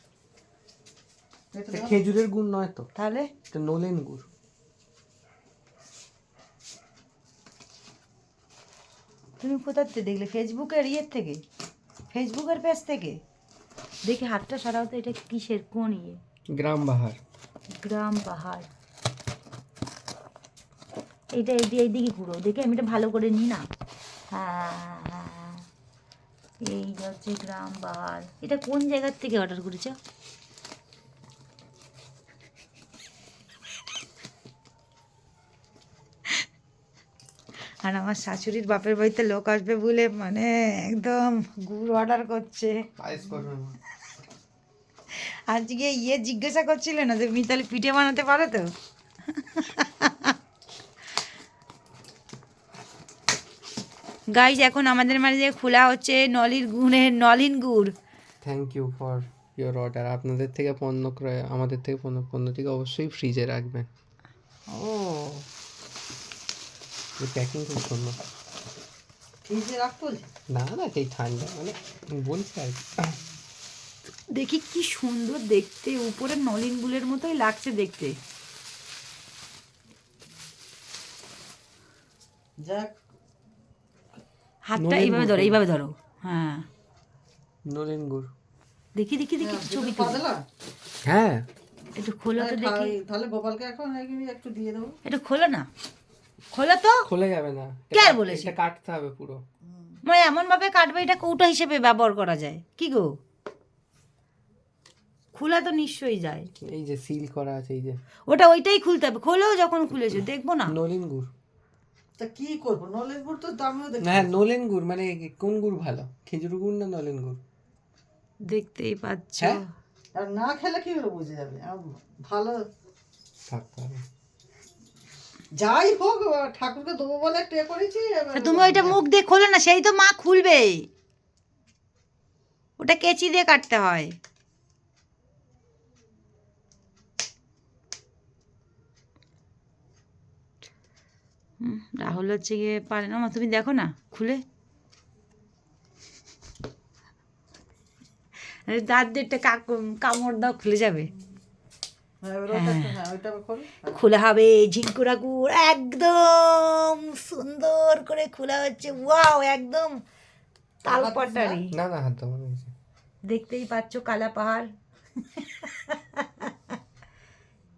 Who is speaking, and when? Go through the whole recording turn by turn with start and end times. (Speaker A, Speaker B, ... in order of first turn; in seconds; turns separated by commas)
Speaker A: 1.5-2.0, Speaker B: 1.7-2.9, Speaker C: 2.9-3.3, Speaker B: 3.5-4.3, Speaker C: 9.4-11.4, Speaker C: 12.1-13.2, Speaker C: 14.0-16.2, Speaker B: 16.5-17.2, Speaker C: 17.8-18.7, Speaker C: 21.3-23.6, Speaker C: 24.3-25.6, Speaker C: 26.6-29.9, Speaker C: 37.8-42.8, Speaker B: 43.0-43.8, Speaker C: 45.1-48.7, Speaker C: 49.3-50.3, Speaker C: 54.3-57.9, Speaker B: 58.4-63.9, Speaker C: 64.7-65.4, Speaker B: 67.2-68.2, Speaker A: 69.4-70.3, Speaker B: 70.5-73.2, Speaker C: 74.3-78.2, Speaker A: 82.6-82.9, Speaker C: 84.7-86.6, Speaker B: 84.8-85.6, Speaker B: 87.7-88.3, Speaker C: 88.9-90.2, Speaker A: 89.4-90.4, Speaker B: 91.0-91.5, Speaker C: 91.9-92.9, Speaker A: 92.4-95.0, Speaker C: 95.0-95.7, Speaker C: 96.5-97.0, Speaker B: 97.0-99.4, Speaker C: 97.9-98.5, Speaker A: 99.7-100.0, Speaker C: 100.0-103.2, Speaker C: 105.3-106.5, Speaker B: 106.6-108.0, Speaker C: 108.3-110.7, Speaker B: 110.7-111.3, Speaker A: 112.2-114.3, Speaker B: 114.0-117.4, Speaker C: 118.4-119.7, Speaker A: 120.1-122.6, Speaker B: 123.5-124.0, Speaker A: 125.5-129.0, Speaker C: 128.3-130.9, Speaker C: 132.8-134.1, Speaker C: 141.6-144.4, Speaker C: 148.6-151.1, Speaker A: 152.2-154.0, Speaker C: 152.5-152.9, Speaker C: 153.9-160.0, Speaker A: 160.8-161.6, Speaker C: 160.8-161.7, Speaker B: 161.7-162.7, Speaker C: 163.2-164.7, Speaker C: 165.3-166.5